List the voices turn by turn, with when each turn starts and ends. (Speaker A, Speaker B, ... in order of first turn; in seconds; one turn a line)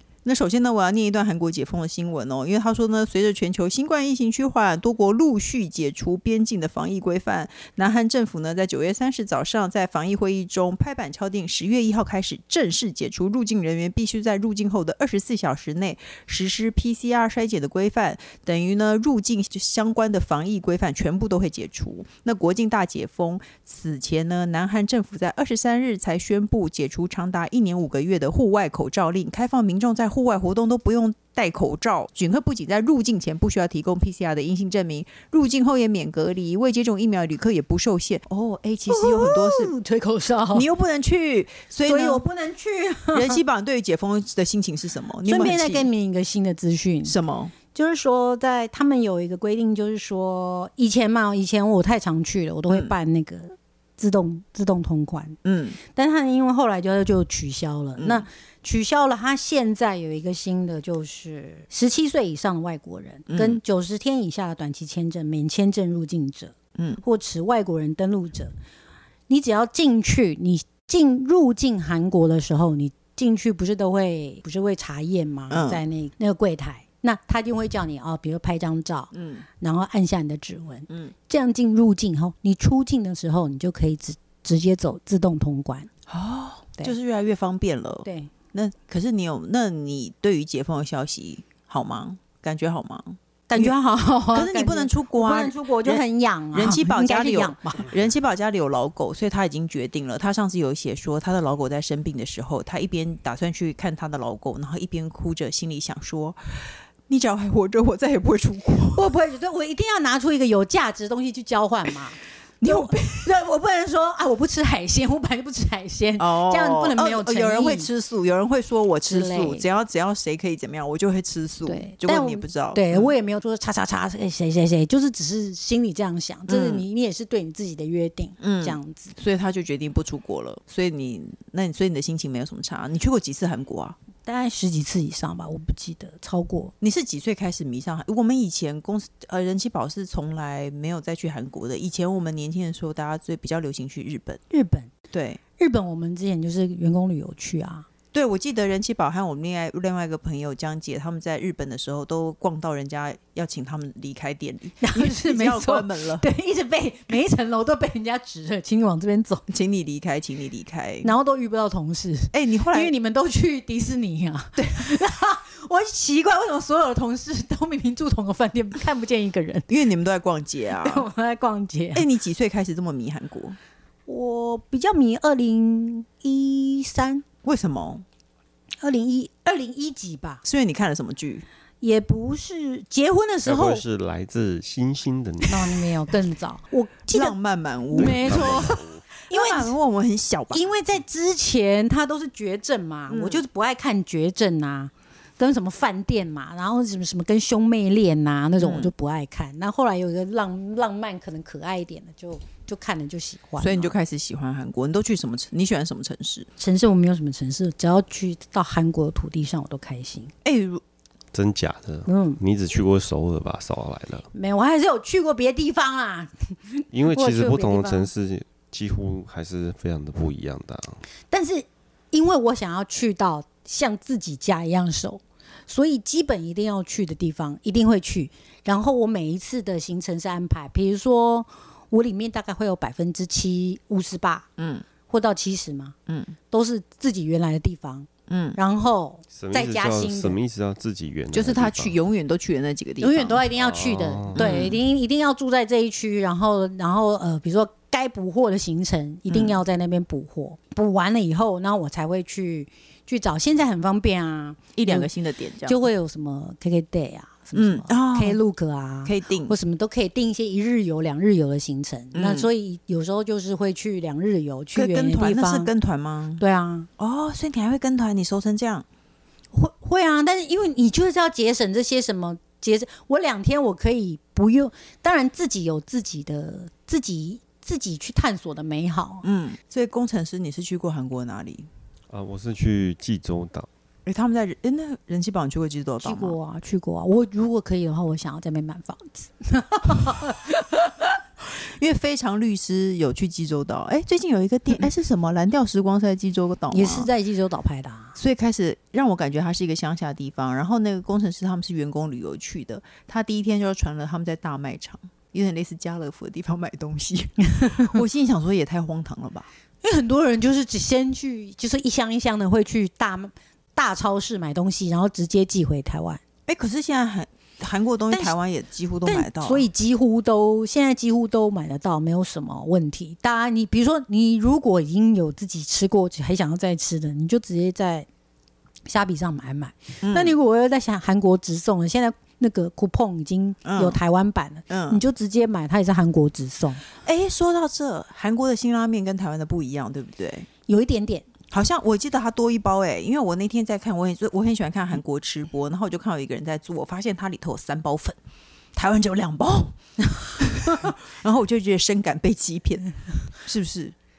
Speaker A: 0.2-39.7
Speaker B: 38.9-40.7
Speaker A: 40.5-42.2
Speaker B: 41.9-43.4
Speaker A: 43.1-45.9
Speaker B: 45.2-47.1
Speaker A: 47.0-47.5
Speaker B: 47.7-68.5
Speaker A: 52.7-52.9
Speaker A: 55.4-55.8
Speaker A: 58.0-58.3
Speaker A: 63.3-63.6
Speaker A: 66.8-67.0
Speaker B: 69.3-85.9
Speaker A: 75.5-75.8
Speaker A: 79.1-79.4
Speaker A: 86.1-93.7
Speaker B: 88.0-88.3
Speaker B: 93.5-97.9
Speaker A: 94.3-96.0
Speaker A: 96.5-109.1
Speaker B: 108.9-117.9
Speaker A: 112.6-113.3
Speaker A: 116.2-123.1
Speaker B: 119.1-119.7
Speaker B: 121.7-129.1
Speaker A: 126.5-126.8
Speaker A: 128.4-134.0
Speaker B: 134.2-136.7
Speaker A: 136.8-144.4
Speaker B: 144.5-144.9
Speaker A: 145.1-145.4
Speaker B: 145.6-147.9
Speaker A: 148.1-156.3
Speaker B: 154.8-159.4
Speaker A: 159.5-161.1
Speaker B: 161.0-169.7
Speaker A: 162.3-162.9
Speaker A: 164.6-164.8
Speaker A: 169.7-171.1
Speaker B: 170.8-172.1
Speaker A: 171.9-173.6
Speaker B: 174.1-177.2
Speaker A: 177.4-178.0
Speaker B: 178.8-180.4
Speaker A: 180.4-181.5
Speaker B: 181.8-183.8
Speaker C: 183.4-185.9
Speaker B: 185.5-187.3
Speaker A: 187.1-188.7
Speaker B: 187.9-189.7
Speaker C: 188.0-189.0
Speaker A: 189.3-190.7
Speaker B: 190.5-203.9
Speaker A: 193.1-193.4
Speaker A: 198.6-198.9
Speaker A: 203.6-206.5
Speaker B: 206.6-210.3
Speaker A: 210.4-210.8
Speaker C: 211.3-214.3
Speaker B: 212.1-212.4
Speaker B: 214.3-218.1
Speaker C: 216.9-221.0
Speaker B: 221.3-234.5
Speaker A: 234.6-234.8
Speaker B: 235.1-235.9
Speaker A: 236.1-236.3
Speaker B: 236.5-240.4
Speaker A: 238.3-238.6
Speaker C: 239.3-242.0
Speaker A: 241.3-243.4
Speaker B: 243.0-255.1
Speaker C: 243.6-244.5
Speaker A: 244.3-244.8
Speaker A: 249.3-249.6
Speaker A: 254.7-255.8
Speaker B: 255.7-265.7
Speaker A: 257.5-258.4
Speaker A: 259.0-259.6
Speaker A: 262.1-262.5
Speaker A: 264.7-266.4
Speaker B: 266.4-266.9
Speaker A: 267.0-268.9
Speaker B: 269.5-279.2
Speaker A: 279.2-281.7
Speaker C: 282.1-283.7
Speaker A: 284.0-286.4
Speaker B: 286.0-290.7
Speaker A: 291.6-297.1
Speaker B: 296.7-298.1
Speaker A: 298.1-309.5
Speaker B: 307.5-308.0
Speaker B: 309.8-316.2
Speaker A: 316.5-319.7
Speaker B: 319.1-328.1
Speaker B: 328.9-336.8
Speaker A: 330.0-330.3
Speaker A: 333.6-334.0
Speaker A: 334.7-335.0
Speaker A: 336.9-340.5
Speaker B: 340.7-341.2
Speaker A: 341.5-348.2
Speaker A: 348.7-349.8
Speaker B: 350.1-350.4
Speaker A: 350.4-353.9